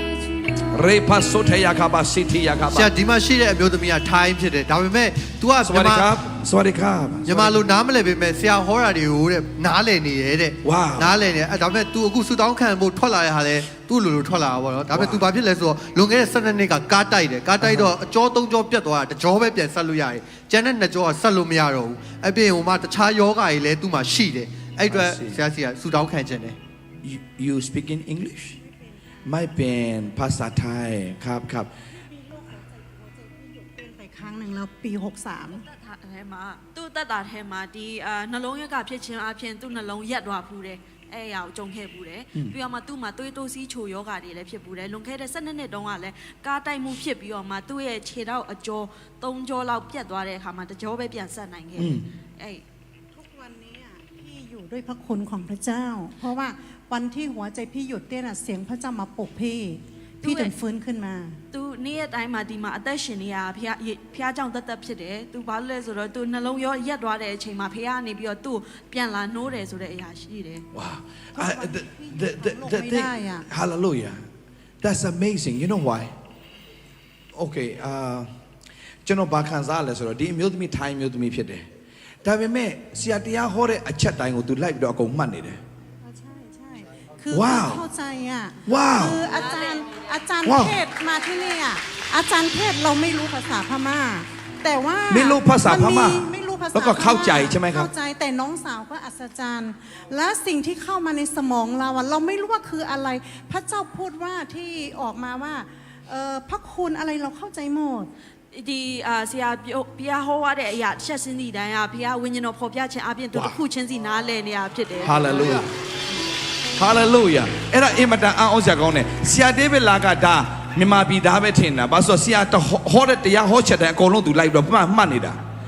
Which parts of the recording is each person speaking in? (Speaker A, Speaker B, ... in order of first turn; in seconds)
Speaker A: 0.6-2.9, 5.6-7.6, 10.6-11.1, 14.9-15.2, 17.6-17.9, 24.9-25.4, 27.0-28.6, 29.2-31.7, 51.8-52.0, 70.7-74.2, 74.8-76.1, 77.3-78.3, 79.0-81.7, 82.2-85.6, 87.3-87.8, 88.6-89.2, 90.4-90.8, 95.1-97.9, 113.3-113.6, 115.0-115.7, 116.8-125.4
Speaker B: 2.7-6.1, 7.2-26.6
Speaker C: 32.0-35.6, 53.1-61.4, 71.3-73.5, 86.0-108.1
Speaker D: 35.5-52.6, 60.2-60.5, 61.5-70.7, 89.3-90.1, 108.5-115.6